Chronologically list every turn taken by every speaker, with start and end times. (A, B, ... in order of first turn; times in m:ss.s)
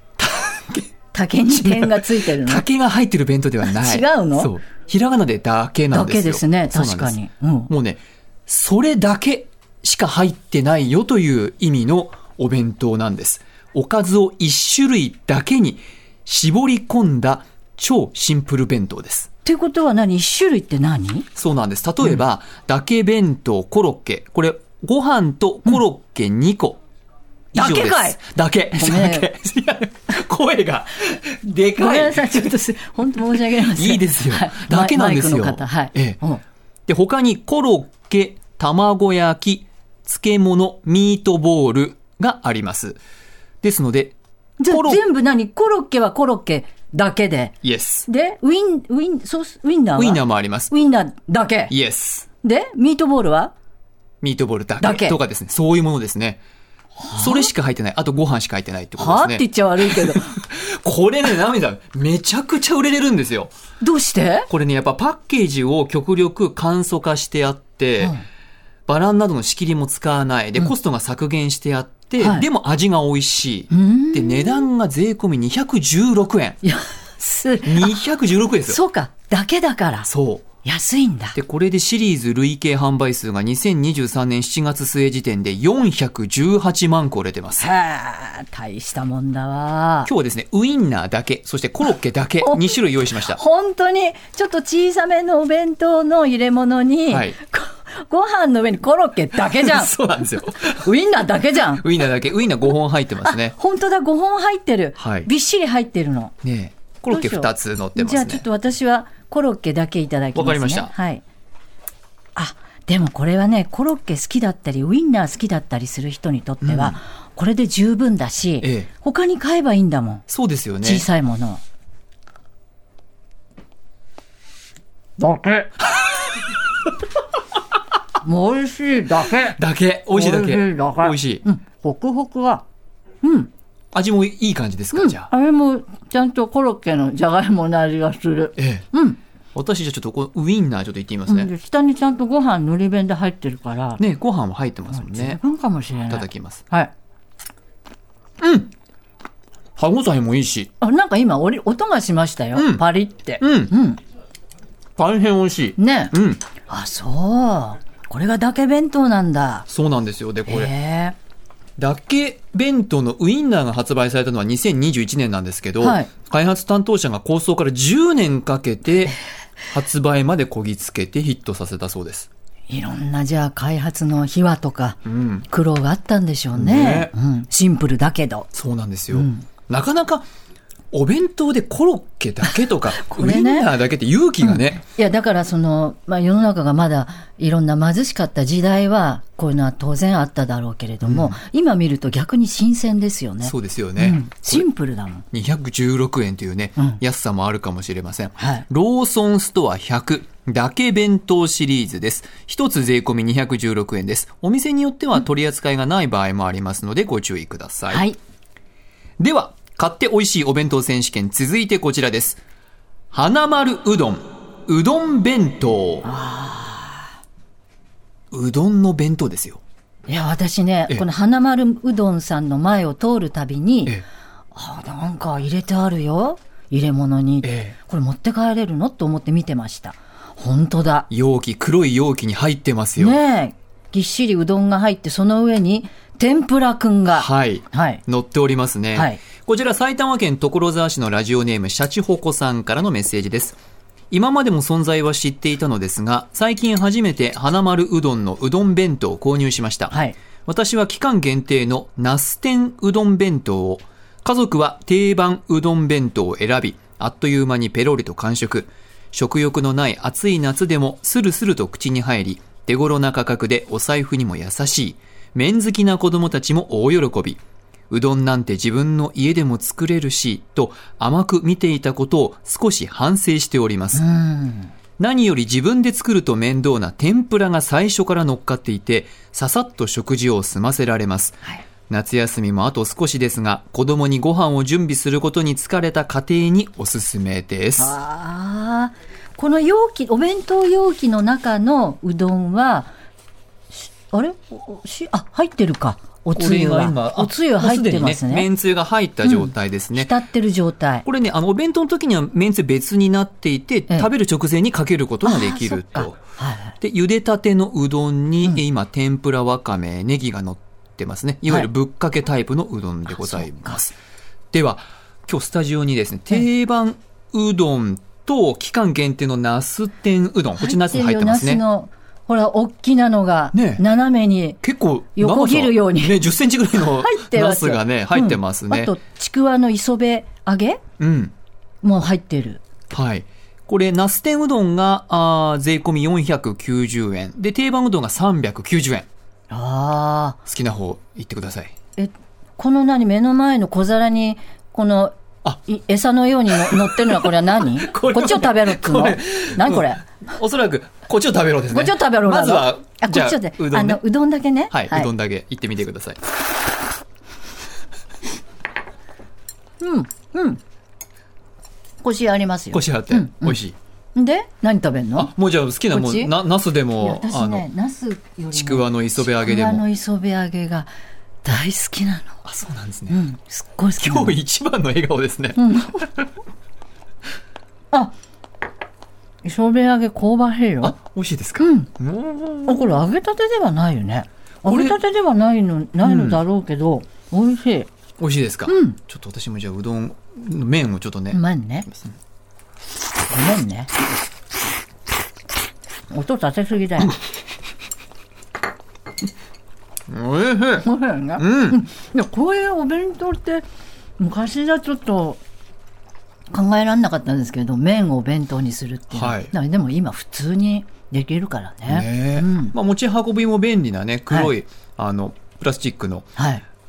0:00.2-0:00.9 A
0:01.1-0:02.7 B
0:01.5-0:07.2 A
0:03.6-0:04.5 B
0:05.9-0:07.7 B
0:07.7-0:19.3 A
0:19.4-0:21.3 B
0:21.4-0:26.8 A
0:27.5-0:32.5 A
0:27.6-0:28.2 B
0:28.7-0:29.3 B
0:31.8-0:36.4 B
0:33.3-0:36.2 A
0:36.9-0:43.0 A
0:43.6-0:44.2 A
0:44.6-0:47.5 B
0:44.7-0:45.0 A
0:47.6-0:48.1 A
0:48.1-0:51.7 B
0:50.0-0:50.7 A
0:51.7-0:52.3 A
0:52.4-0:53.5 B
0:54.2-0:56.4 A
0:54.8-0:55.2 B
0:57.0-0:57.5 B
0:57.1-1:03.5 A
0:59.0-1:00.4 B
1:03.8-1:04.5 B
1:04.5-1:08.2 A
1:08.9-1:16.6 A
1:12.2-1:12.5 B
1:13.7-1:14.7 B
1:16.6-1:18.0 B
1:17.6-1:18.8 A
1:18.7-1:20.1 B
1:20.1-1:20.5 A
1:20.6-1:21.4 B
1:21.4-1:27.7 A
1:27.6-1:30.1 B
1:30.1-1:33.4 A
1:32.4-1:39.9 B
1:37.1-1:37.4 A
1:39.5-1:40.9 A
1:40.7-1:41.8 B
1:41.7-1:43.6 A
1:43.3-1:46.3 B
1:45.0-1:45.3 A
1:46.4-1:48.4 A
1:47.1-1:51.2 B
1:50.4-1:50.9 A
1:52.4-2:00.2 B
1:56.6-1:57.0 A
1:58.6-1:58.9 A
2:00.3-2:01.1 A
2:00.8-2:01.6 B
2:05.2-2:05.7 B
2:08.2-2:09.6 B
2:09.4-2:11.4 A
2:10.1-2:12.6 B
2:13.2-2:13.5 B
2:13.9-2:15.3 A
2:14.9-2:19.2 B
2:18.6-2:18.9 A
2:19.6-2:21.5 A
2:21.3-2:24.0 B
2:24.0-2:25.4 A
2:24.9-2:26.9 B
2:26.1-2:26.6 A
2:28.4-2:28.7 A
2:29.8-2:30.7 A
2:30.8-2:34.0 B
2:32.6-2:32.8 A
2:33.4-2:33.7 A
2:35.0-2:36.4 A
2:35.8-2:36.1 B
2:36.7-2:39.7 B
2:39.7-2:40.7 A
2:40.5-2:41.2 B
2:41.8-2:49.2 A
2:45.8-2:46.1 B
2:49.7-2:52.3 A
2:52.7-2:58.5 B
2:55.1-2:55.5 A
2:56.5-2:57.1 A
2:58.5-3:00.3 A
2:59.1-2:59.5 B
3:00.9-3:04.8 A
3:02.9-3:03.7 B
3:04.4-3:15.2 B
3:11.0-3:11.4 A
3:13.4-3:14.7 A
3:15.3-3:28.0 A
3:18.4-3:18.7 B
3:27.9-3:28.2 B
3:29.2-3:32.4 A
3:33.1-3:36.1 A
3:36.0-3:37.1 B
3:38.3-3:39.6 A
3:40.1-3:44.0 B
3:44.5-3:51.1 B
3:47.4-3:47.8 A
3:51.1-3:53.2 A
3:53.0-3:58.0 B
3:57.1-4:03.6 A
3:58.9-3:59.2 B
4:04.1-4:10.0 A
4:09.9-4:10.2 B
4:10.5-4:34.0 A
4:33.9-4:34.7 B
4:35.0-4:41.4 A
4:41.9-4:48.0 A
4:47.8-4:52.9 B
4:53.7-4:58.5 B
4:56.4-5:00.1 A
4:59.2-5:01.1 B
5:01.1-5:06.2 A
5:05.2-5:06.8 B
5:06.8-5:14.0 A
5:13.1-5:13.8 B
5:14.5-5:21.6 A
5:20.6-5:24.6 B
5:23.5-5:23.8 A
5:24.6-5:28.9 A
5:25.2-5:26.2 B
5:26.7-5:30.8 B
5:31.0-5:31.3 A
5:31.8-5:32.6 B
5:32.9-5:39.1 A
5:39.5-5:40.4 B
5:40.5-5:41.7 A
5:42.0-5:45.1 B
5:45.6-5:50.0 B
5:46.7-5:54.0 A
5:51.7-5:55.1 B
5:54.7-5:56.2 A
5:59.8-6:00.6 B
6:02.0-6:03.6 B
6:02.7-6:03.8 A
6:04.2-6:05.3 B
6:05.2-6:07.7 A
6:05.9-6:06.3 B
6:07.0-6:10.9 B
6:08.5-6:09.8 A
6:11.4-6:12.4 B
6:12.4-6:13.2 A
6:13.1-6:14.4 B
6:14.0-6:16.1 A
6:15.6-6:16.0 B
6:19.4-6:21.0 B
6:20.8-6:22.9 A
6:21.6-6:21.9 B
6:22.7-6:27.9 B
6:24.6-6:25.0 A
6:26.0-6:26.4 A
6:28.2-6:32.1 A
6:28.7-6:29.0 B
6:31.3-6:31.9 B
6:33.3-6:33.9 B
6:36.1-6:37.2 B
6:40.1-6:40.9 A
6:40.8-6:43.6 B
6:41.4-6:41.8 A
6:44.2-6:45.4 B
6:46.5-6:52.8 B
6:49.1-6:49.5 A
6:51.9-6:56.3 A
6:56.4-6:56.6 B